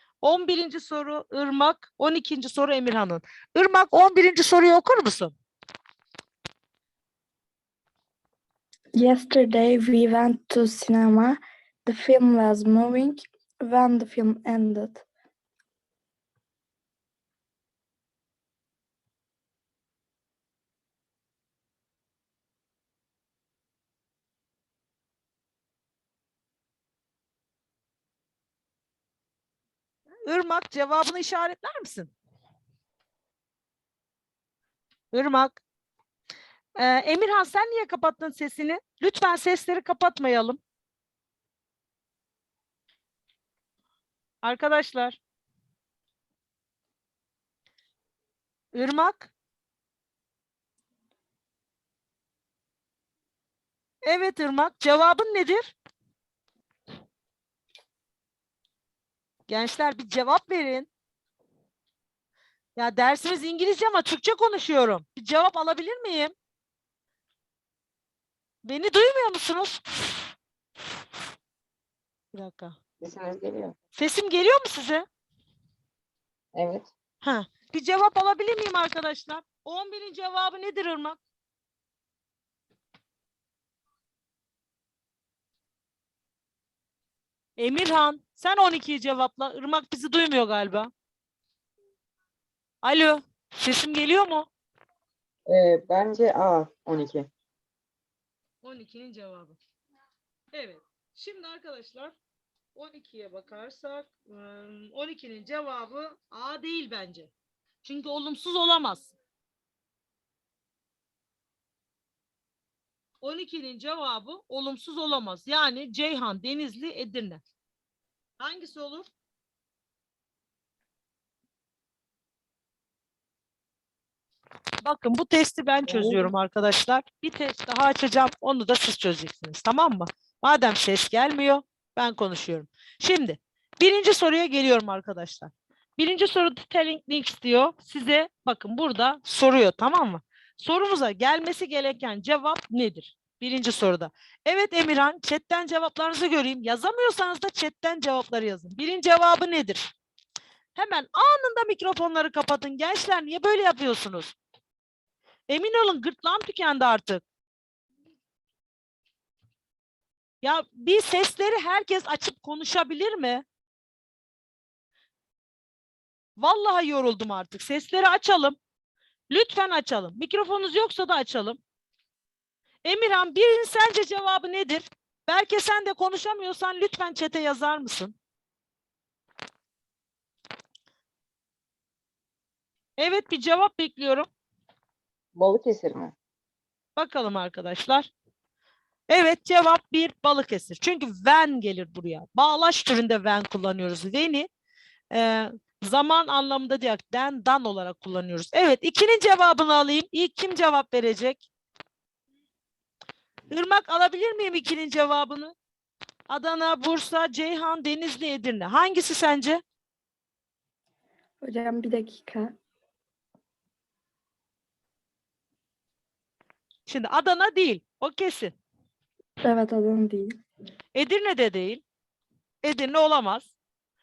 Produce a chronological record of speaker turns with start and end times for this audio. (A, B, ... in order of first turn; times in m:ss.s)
0:00.2-0:05.3 A
0:09.0-0:15.0 B
0:30.3-0:32.1 A
0:35.1-0:35.6 A
0:36.8-0:40.6 A
0:44.4-0:45.2 A
0:48.7-0:49.3 A
0:54.1-0:55.8 A
0:59.5-1:00.9 A
1:02.8-1:06.3 A
1:08.6-1:10.2 A
1:12.3-1:12.8 A
1:13.0-1:13.8 C
1:14.0-1:15.0 A
1:16.5-1:16.9 C
1:17.2-1:21.2 A
1:27.6-1:30.9 A
1:32.8-1:34.5 A
1:35.5-1:37.3 C
1:38.6-1:39.6 A
1:40.5-1:42.2 A
1:42.8-1:47.3 A
1:47.8-1:49.2 A
1:53.2-1:57.4 A
1:58.4-1:59.1 A
2:04.8-2:29.9 A
2:05.9-2:06.3 C
2:30.8-2:34.4 A
2:35.5-2:37.2 A
2:40.4-2:43.4 A
2:46.4-2:48.6 A
2:49.3-2:51.6 A
2:52.8-2:58.2 A
3:03.0-3:04.3 A
3:05.4-3:06.1 C
3:07.0-3:08.1 A
3:09.1-3:14.5 A
3:15.1-3:21.5 A
3:23.5-3:25.6 A
3:26.3-3:29.6 A
3:31.4-3:32.6 B
3:36.9-3:38.5 A
3:39.4-3:40.4 B
3:41.0-3:41.8 A
3:42.6-3:43.5 A